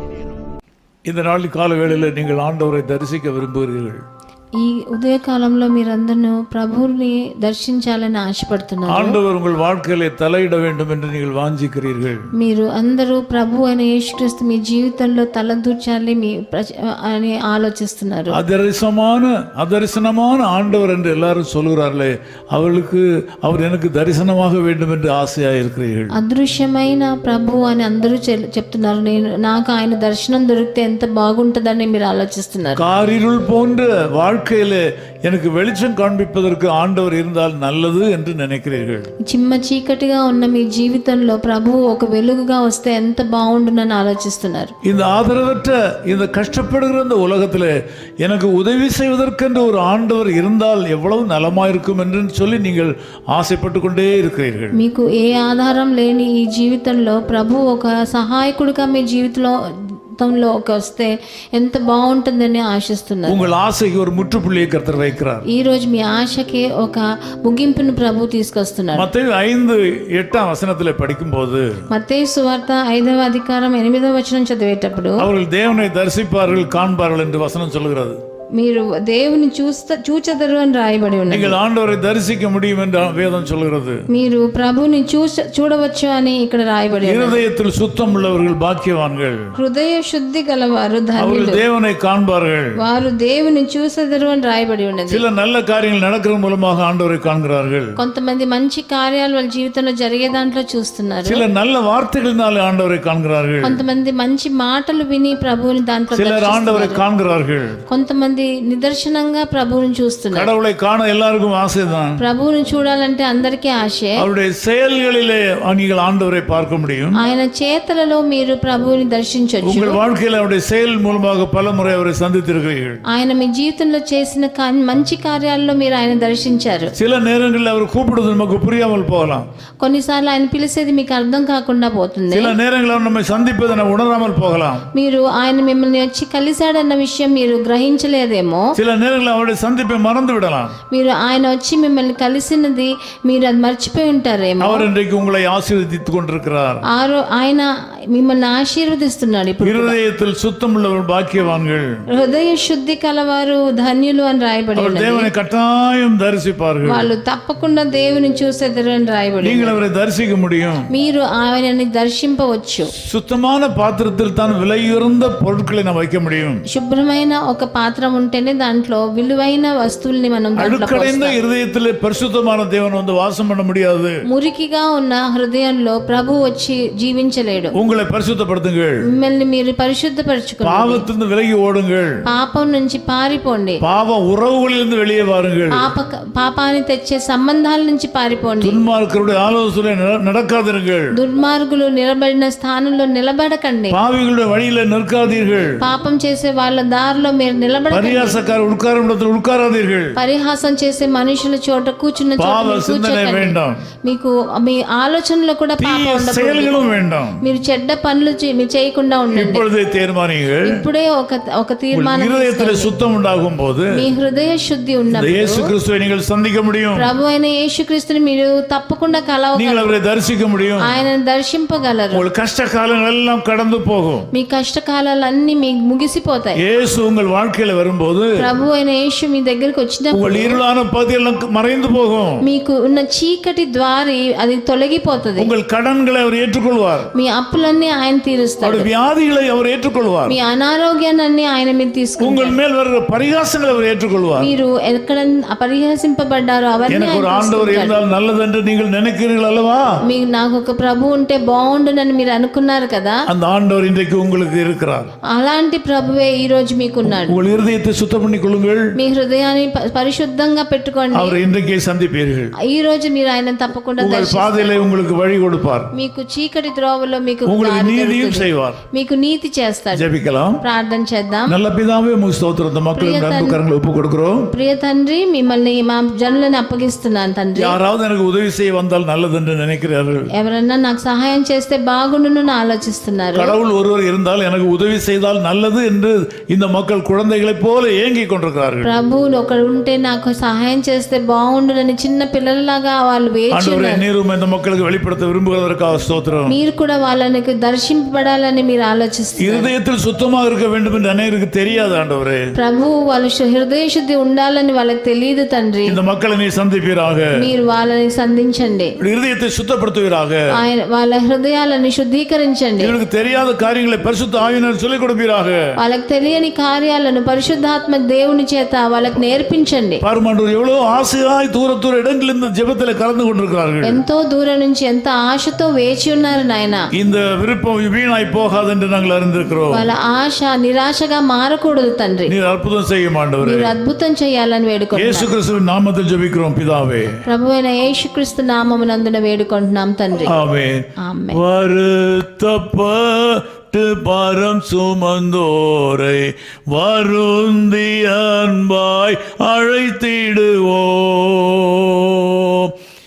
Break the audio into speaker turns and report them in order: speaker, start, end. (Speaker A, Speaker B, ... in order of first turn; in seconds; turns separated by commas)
Speaker A: 1.1-4.0, Speaker B: 4.6-9.2, Speaker A: 8.9-12.3, Speaker B: 12.3-18.4, Speaker A: 18.3-26.1, Speaker B: 26.1-32.8, Speaker A: 32.8-39.1, Speaker B: 39.2-44.7, Speaker A: 44.8-54.8, Speaker B: 54.7-63.4, Speaker A: 63.3-65.4, Speaker B: 65.5-69.1, Speaker A: 68.9-71.7, Speaker B: 71.9-75.2, Speaker A: 75.2-78.2, Speaker B: 78.6-81.6, Speaker A: 81.3-84.0, Speaker B: 84.1-87.4, Speaker A: 87.0-89.4, Speaker B: 89.6-91.6, Speaker A: 91.2-92.7, Speaker B: 92.8-95.2, Speaker A: 95.1-97.9, Speaker B: 98.0-101.4, Speaker A: 101.2-103.8, Speaker B: 103.6-107.0, Speaker A: 106.1-107.8, Speaker B: 107.9-110.5, Speaker A: 110.3-112.2, Speaker B: 112.2-114.2, Speaker A: 114.2-117.2, Speaker B: 117.2-120.0, Speaker A: 119.6-123.0, Speaker B: 123.1-126.9, Speaker A: 127.0-129.4, Speaker B: 129.8-132.5, Speaker A: 132.3-134.8, Speaker B: 134.9-138.7, Speaker A: 138.8-140.7, Speaker B: 140.9-144.9, Speaker A: 144.6-146.8, Speaker B: 146.9-150.0, Speaker A: 149.6-151.9, Speaker B: 152.1-155.3, Speaker A: 154.8-157.1, Speaker B: 156.8-159.8, Speaker A: 159.4-160.8, Speaker B: 160.9-162.9, Speaker A: 163.0-166.6, Speaker B: 166.7-171.4, Speaker A: 170.6-174.1, Speaker B: 174.3-177.7, Speaker A: 177.7-179.0, Speaker B: 179.1-181.1, Speaker A: 180.6-182.1, Speaker B: 182.2-183.8, Speaker A: 183.8-185.9, Speaker B: 185.7-188.8, Speaker A: 188.6-191.1, Speaker B: 191.1-194.0, Speaker A: 193.9-195.8, Speaker B: 195.8-198.4, Speaker A: 197.9-200.1, Speaker B: 200.2-206.8, Speaker A: 202.4-203.8, Speaker A: 205.8-207.4, Speaker B: 207.4-209.6, Speaker A: 209.3-210.8, Speaker B: 210.6-212.9, Speaker A: 211.9-214.0, Speaker B: 213.9-215.7, Speaker A: 215.1-217.1, Speaker B: 216.9-219.9, Speaker A: 219.5-220.9, Speaker B: 220.8-222.2, Speaker A: 222.1-224.3, Speaker B: 224.3-226.6, Speaker A: 226.6-228.3, Speaker B: 228.4-230.6, Speaker A: 230.1-232.4, Speaker B: 232.4-235.5, Speaker A: 235.4-237.1, Speaker B: 237.1-238.9, Speaker A: 238.6-240.4, Speaker B: 240.3-242.6, Speaker A: 242.2-244.5, Speaker B: 244.4-248.0, Speaker A: 246.9-249.9, Speaker B: 250.0-253.2, Speaker A: 253.3-255.1, Speaker B: 255.3-257.4, Speaker A: 257.0-258.9, Speaker B: 258.9-261.4, Speaker A: 261.1-262.5, Speaker B: 262.6-264.8, Speaker A: 264.0-265.9, Speaker B: 265.9-271.6, Speaker A: 267.4-268.8, Speaker A: 269.9-270.6, Speaker A: 271.5-274.5, Speaker B: 272.9-273.6, Speaker B: 274.5-277.8, Speaker A: 277.6-280.3, Speaker B: 280.3-283.6, Speaker A: 283.4-288.9, Speaker B: 288.8-294.0, Speaker A: 293.5-296.6, Speaker B: 296.5-299.7, Speaker A: 299.4-302.4, Speaker B: 302.5-306.0, Speaker A: 305.9-307.3, Speaker B: 307.4-308.9, Speaker A: 309.0-310.4, Speaker B: 310.5-312.9, Speaker A: 312.8-315.6, Speaker B: 315.8-320.0, Speaker A: 320.0-324.0, Speaker B: 323.8-326.9, Speaker A: 326.9-329.9, Speaker B: 329.7-332.3, Speaker A: 332.3-333.7, Speaker B: 333.4-335.3, Speaker A: 334.9-337.2, Speaker B: 337.2-340.4, Speaker A: 340.2-352.7, Speaker B: 341.0-341.4